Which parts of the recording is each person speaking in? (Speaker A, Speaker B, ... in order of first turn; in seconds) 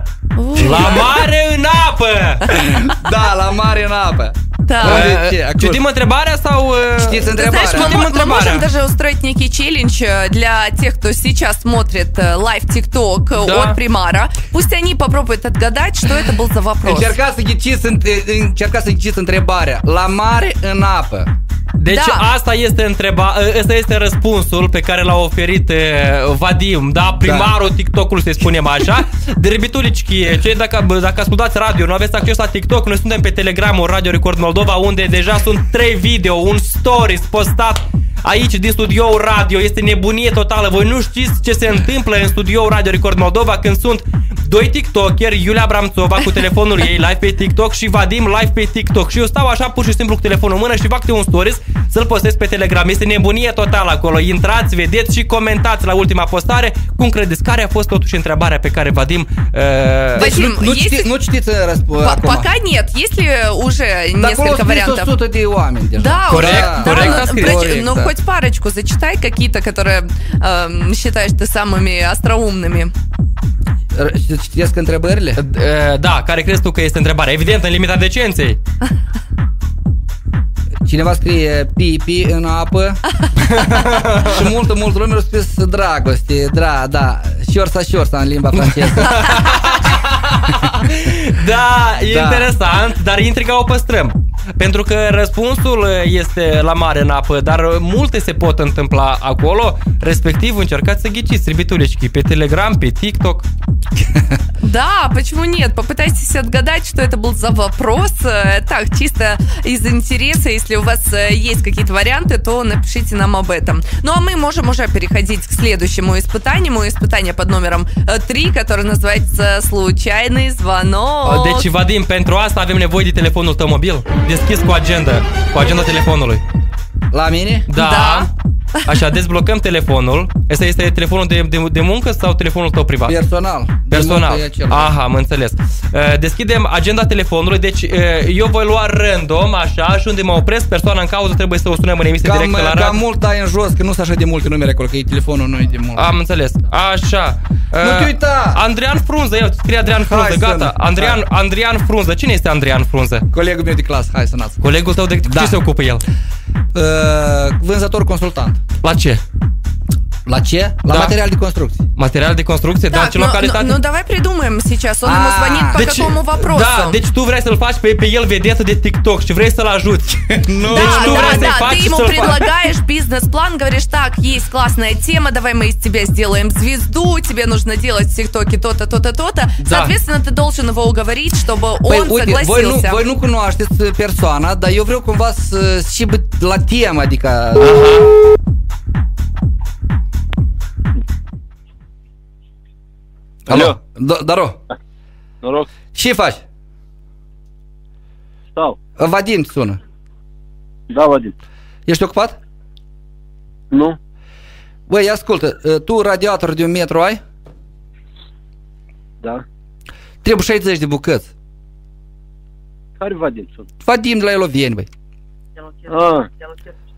Speaker A: 0.3-1.2, 4.7-5.1, 7.3-17.1, 21.9-22.3, 60.1-61.1, 62.0-65.1, 65.9-72.9, 104.6-121.7, 127.8-128.3, 162.9-167.0, 170.7-183.0
Speaker B: 0.6-2.6, 4.8-8.7, 13.3-13.8, 21.8-60.3, 66.3-68.1, 75.4-78.6, 83.5-84.4, 88.5-103.5, 121.2-126.4, 127.7-128.3, 128.8-133.2, 133.9-143.0, 145.9-153.2, 154.6-156.0, 158.8-159.2, 160.9-161.2, 161.9-163.8, 165.7-172.4, 179.6-179.9, 187.6-188.1
Speaker C: 2.5-5.8, 6.9-8.0, 16.8-21.3, 27.2-27.5, 60.1-62.5, 64.2-68.0, 73.9-75.4, 80.8-83.0, 84.0-89.5, 92.1-92.5, 127.1-127.7, 133.1-134.9, 142.2-146.1, 147.8-148.6, 150.0-151.2, 153.3-154.6, 155.2-155.6, 156.7-158.6, 160.2-161.8, 165.0-165.8, 170.3-172.3, 181.9-187.9, 193.5-194.6, 195.9-196.4, 199.0-199.8, 201.9-202.4, 204.9-207.2, 210.2-211.3, 213.8-214.9
Speaker D: 193.5-193.8, 195.4-195.7, 200.9-201.3, 203.7-204.0, 213.0-213.7, 215.9-216.3